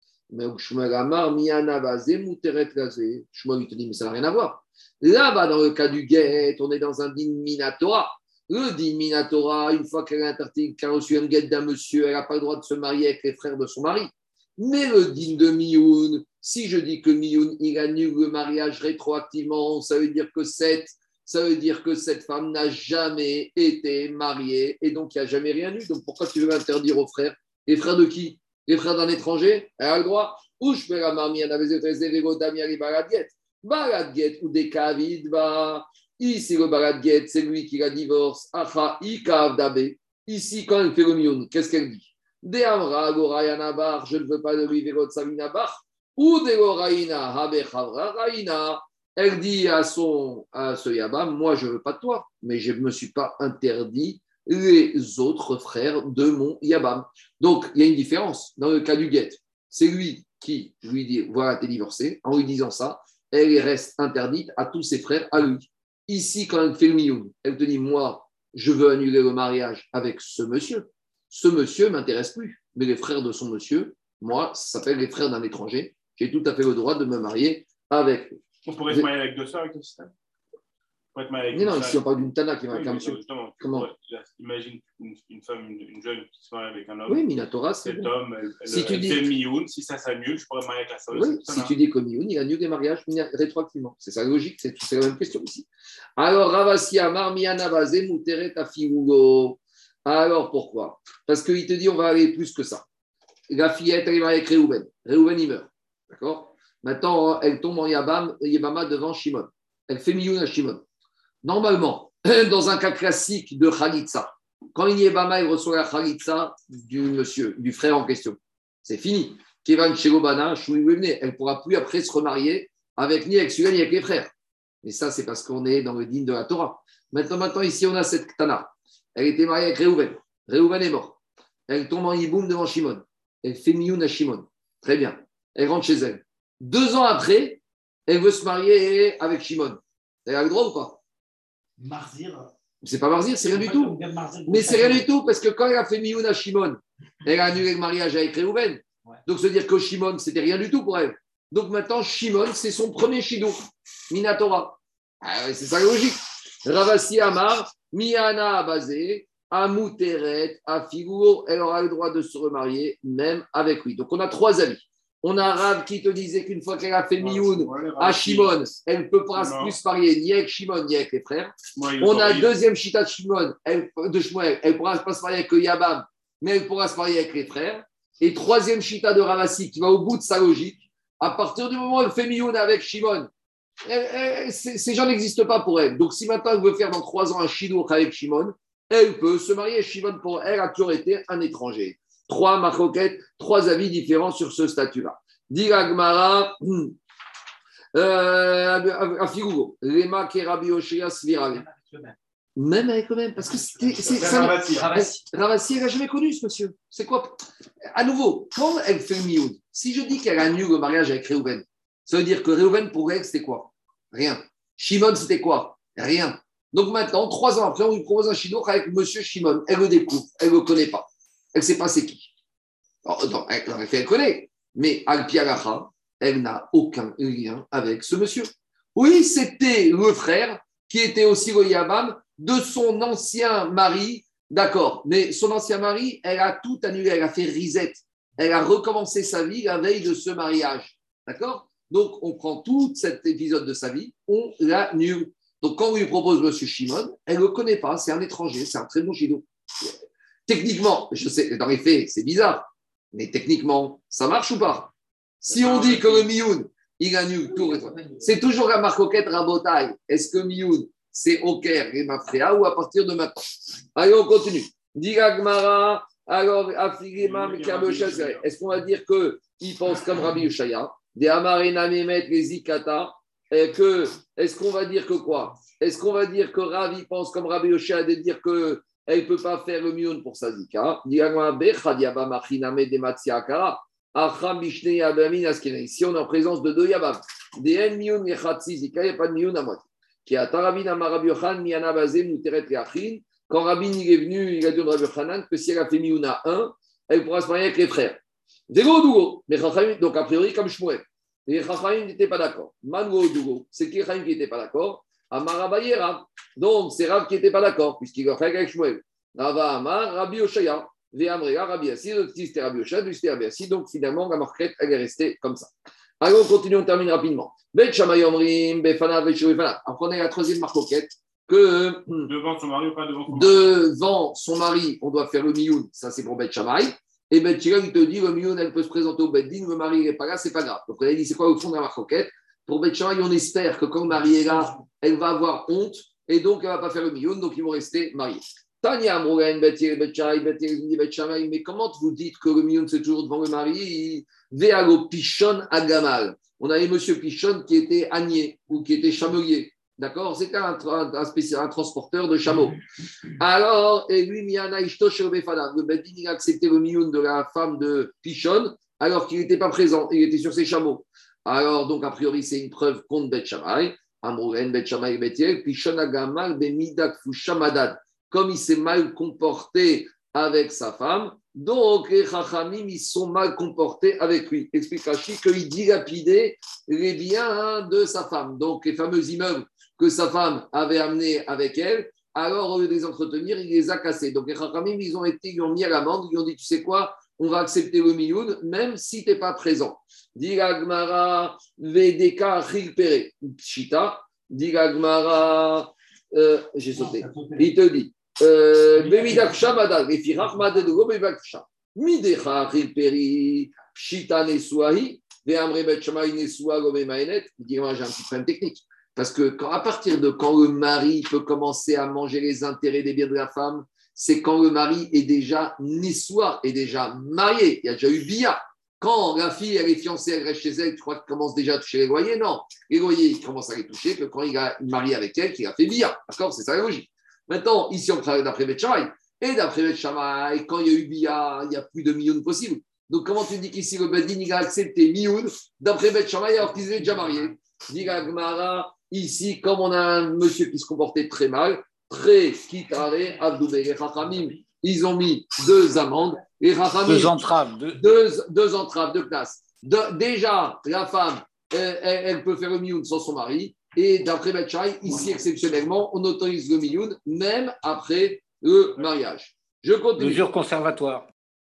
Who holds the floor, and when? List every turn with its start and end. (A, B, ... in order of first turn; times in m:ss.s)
0:00.3-1:18.4 A
1:18.6-1:20.1 B
1:21.1-1:22.0 B
1:21.5-1:23.9 A
1:22.7-1:27.2 B
1:27.1-1:28.1 A
1:27.8-1:31.7 B
1:28.7-1:29.3 A
1:31.1-1:42.8 A
1:43.5-1:50.8 A
1:51.4-2:04.3 A
2:04.8-2:11.2 A
2:11.7-2:21.0 A
2:21.8-2:22.5 C
2:22.8-2:33.6 A
2:23.5-2:25.0 C
2:34.1-3:03.3 A
2:47.2-2:48.6 B
2:49.4-2:49.8 B
2:51.8-2:52.5 B
3:03.9-3:17.0 A
3:17.9-3:21.6 A
3:21.5-3:22.2 C
3:22.6-3:27.4 A
3:24.0-3:24.9 B
3:27.9-3:42.3 A
3:43.0-4:09.9 A
4:10.5-4:14.9 A
4:15.4-4:58.2 A
4:15.5-4:16.3 B
4:17.6-4:18.3 C
4:27.2-4:28.4 B
4:58.7-5:22.3 A
5:22.2-5:23.6 B
5:23.3-5:52.8 A
5:53.4-7:27.4 A
6:37.0-6:37.7 C
6:39.0-6:39.6 C
7:27.1-7:28.0 D
7:28.0-7:40.5 A
7:40.2-7:41.3 D